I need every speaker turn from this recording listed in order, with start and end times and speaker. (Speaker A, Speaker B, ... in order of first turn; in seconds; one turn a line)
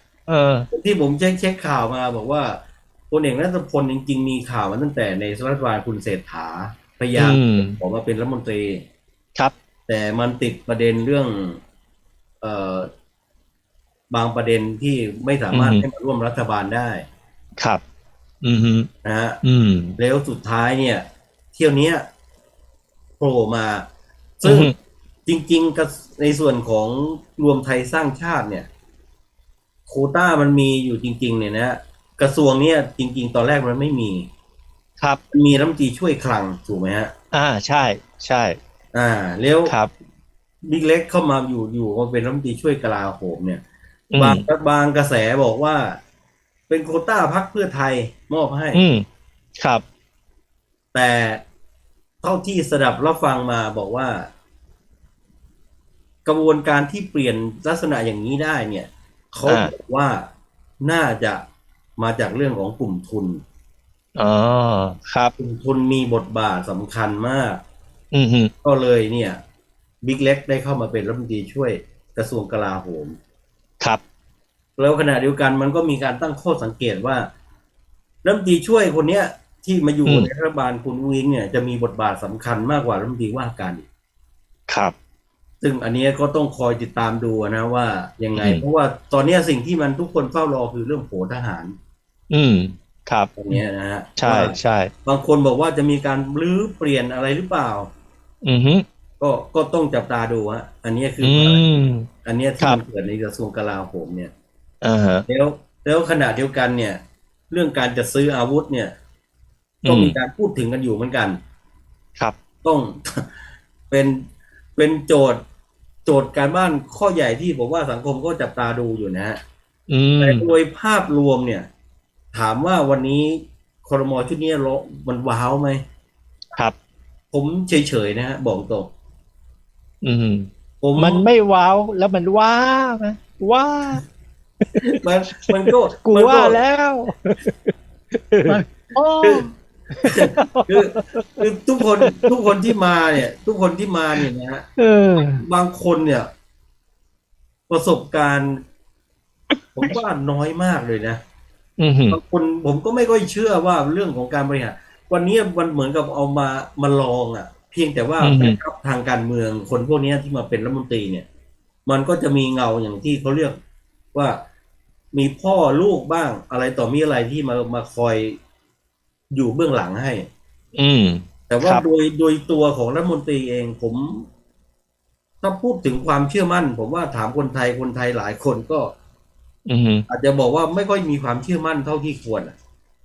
Speaker A: 0.3-0.7
Speaker B: 0.7-2.6
Speaker B: 3.1-8.8
Speaker A: 7.1-7.8
Speaker B: 9.9-11.6
Speaker B: 12.4-12.9
Speaker B: 14.1-17.0
Speaker A: 15.5-15.8
Speaker A: 18.4-18.9
Speaker B: 19.0-19.4
Speaker A: 19.4-20.0
Speaker B: 20.0-22.0
Speaker B: 23.2-23.9
Speaker B: 24.4-24.7
Speaker A: 24.4-24.7
Speaker B: 25.2-28.7
Speaker B: 29.9-34.3
Speaker B: 35.3-37.1
Speaker A: 37.3-38.6
Speaker B: 38.9-39.7
Speaker A: 39.6-39.9
Speaker B: 40.6-43.6
Speaker A: 44.1-44.4
Speaker B: 44.2-46.0
Speaker B: 46.7-48.8
Speaker A: 48.7-49.0
Speaker A: 49.6-49.8
Speaker B: 50.9-51.4
Speaker B: 52.2-54.3
Speaker B: 56.2-60.3
Speaker A: 59.4-59.7
Speaker B: 60.8-61.4
Speaker B: 62.0-63.4
Speaker A: 64.2-65.3
Speaker B: 65.4-67.6
Speaker A: 68.1-68.5
Speaker B: 68.6-69.4
Speaker B: 70.0-73.2
Speaker B: 74.8-77.3
Speaker B: 78.2-83.8
Speaker A: 84.7-84.9
Speaker B: 85.6-91.7
Speaker A: 88.3-88.6
Speaker A: 92.3-93.6
Speaker B: 93.3-97.9
Speaker A: 94.2-94.9
Speaker A: 98.4-98.8
Speaker B: 99.2-101.6
Speaker A: 101.2-102.1
Speaker B: 102.2-104.3
Speaker A: 104.8-105.2
Speaker B: 105.3-108.9
Speaker A: 109.8-110.2
Speaker B: 109.8-111.4
Speaker B: 112.6-113.3
Speaker B: 113.9-115.4
Speaker B: 116.0-119.4
Speaker A: 119.9-120.5
Speaker B: 120.2-121.7
Speaker B: 122.3-125.8
Speaker B: 127.3-128.9
Speaker A: 130.0-134.0
Speaker B: 130.8-131.2
Speaker B: 134.8-136.6
Speaker A: 135.5-137.1
Speaker A: 138.3-139.4
Speaker B: 140.1-144.7
Speaker A: 140.3-141.4
Speaker A: 144.8-145.4
Speaker B: 145.4-146.3
Speaker B: 147.7-148.6
Speaker B: 149.7-151.2
Speaker A: 151.8-152.2
Speaker B: 152.1-161.2
Speaker A: 158.2-158.6
Speaker B: 161.8-163.6
Speaker B: 164.1-164.4
Speaker B: 165.1-168.4
Speaker B: 169.3-170.3
Speaker A: 170.8-171.8
Speaker B: 171.5-174.2
Speaker B: 175.4-178.9
Speaker A: 179.7-180.0
Speaker B: 180.1-182.5